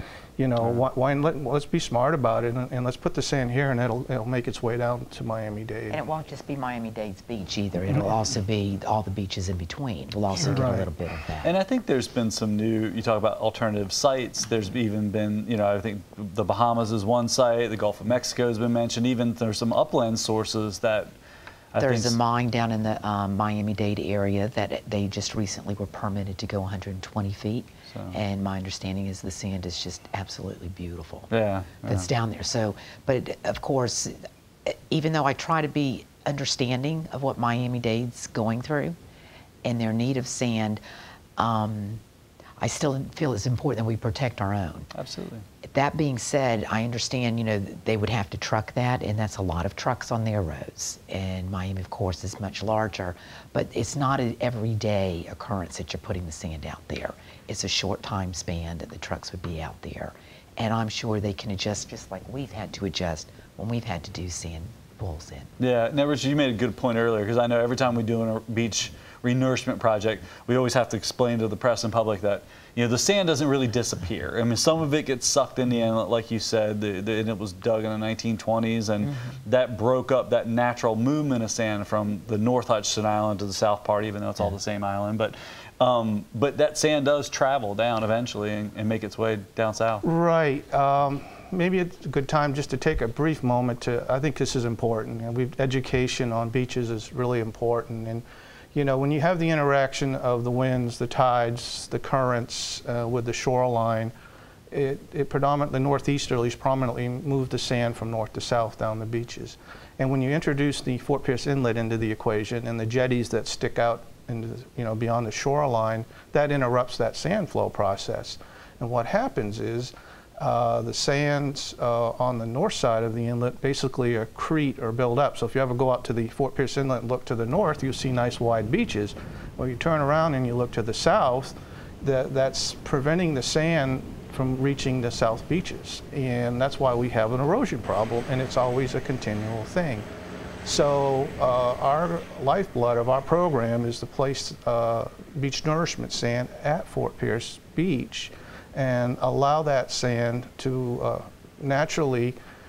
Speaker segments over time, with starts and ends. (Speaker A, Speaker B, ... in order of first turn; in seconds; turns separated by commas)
Speaker A: 0.4-6.0, Speaker B: 5.9-11.5, Speaker A: 10.4-10.9, Speaker C: 11.4-21.1, Speaker C: 21.7-22.2, Speaker B: 21.8-31.3, Speaker C: 27.9-28.2, Speaker C: 31.3-32.1, Speaker B: 31.8-39.0, Speaker B: 39.6-40.8, Speaker B: 41.4-42.0, Speaker B: 42.6-44.9, Speaker C: 44.9-45.5, Speaker B: 45.6-65.5, Speaker C: 65.6-90.0, Speaker A: 90.0-98.2, Speaker A: 98.7-104.1, Speaker A: 104.7-140.1, Speaker A: 140.7-152.4